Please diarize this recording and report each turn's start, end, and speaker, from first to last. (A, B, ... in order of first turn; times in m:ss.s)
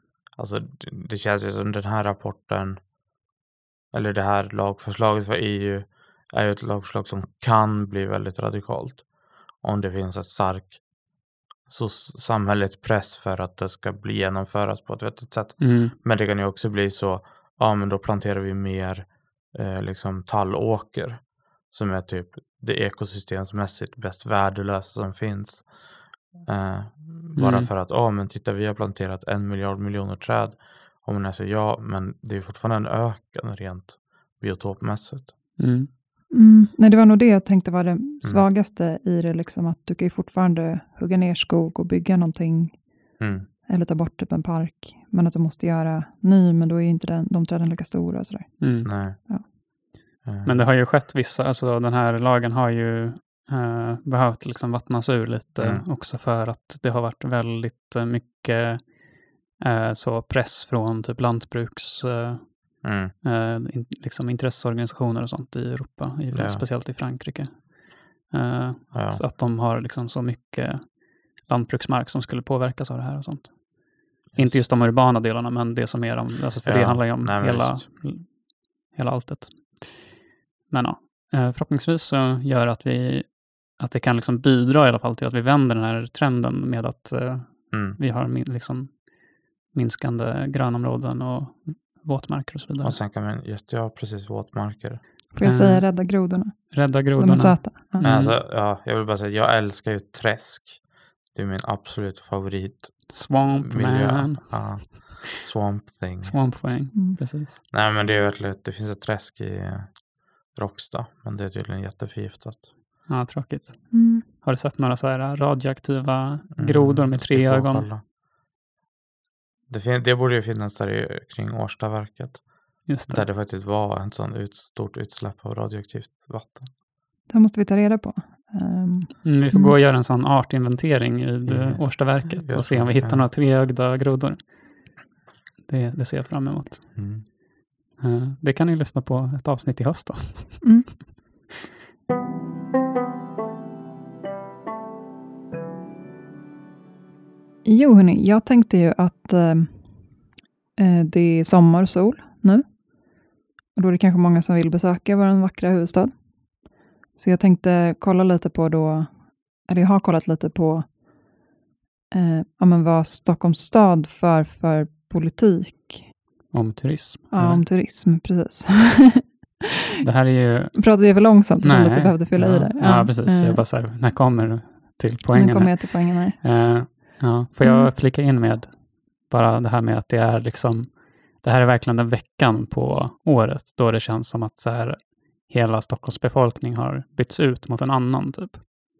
0:00.4-0:02.8 A
0:03.9-0:10.8 A
0:11.6-0:25.8 A
0:15.6-0:15.9 B
0:26.3-0:35.4 A
0:27.4-0:27.7 B
0:35.6-0:35.9 B
0:36.3-0:43.1 C
0:43.2-0:43.5 A
0:43.7-0:49.4 C
0:48.6-0:48.9 B
0:48.8-0:49.2 A
0:50.2-0:50.7 A
0:50.4-1:20.1 B
0:55.6-0:55.8 A
1:02.8-1:03.1 A
1:06.3-1:06.6 A
1:08.9-1:09.2 A
1:14.3-1:14.6 A
1:16.6-1:17.9 A
1:20.7-1:33.0 B
1:27.7-1:28.0 A
1:32.8-1:35.0 A
1:35.3-1:38.1 C
1:35.4-1:38.3 B
1:38.0-1:46.7 A
1:43.1-1:45.2 B
1:46.2-1:47.6 B
1:47.7-1:52.7 A
1:53.1-1:57.9 B
1:53.9-1:54.2 C
1:56.6-1:58.0 A
1:59.7-2:06.7 A
2:02.9-2:03.2 B
2:07.3-2:09.8 C
2:09.2-2:14.8 B
2:11.4-2:13.3 A
2:15.6-2:17.2 B
2:16.9-2:17.2 A
2:18.0-2:20.9 B
2:20.6-2:21.0 C
2:27.6-2:30.2 C
2:30.8-2:33.2 C
2:33.7-2:40.9 C
2:42.1-2:46.1 C
2:46.5-2:47.6 B
2:47.3-2:49.3 C
2:50.0-3:08.6 B
2:50.8-2:53.6 C
2:55.3-2:56.4 C
2:57.6-2:57.9 C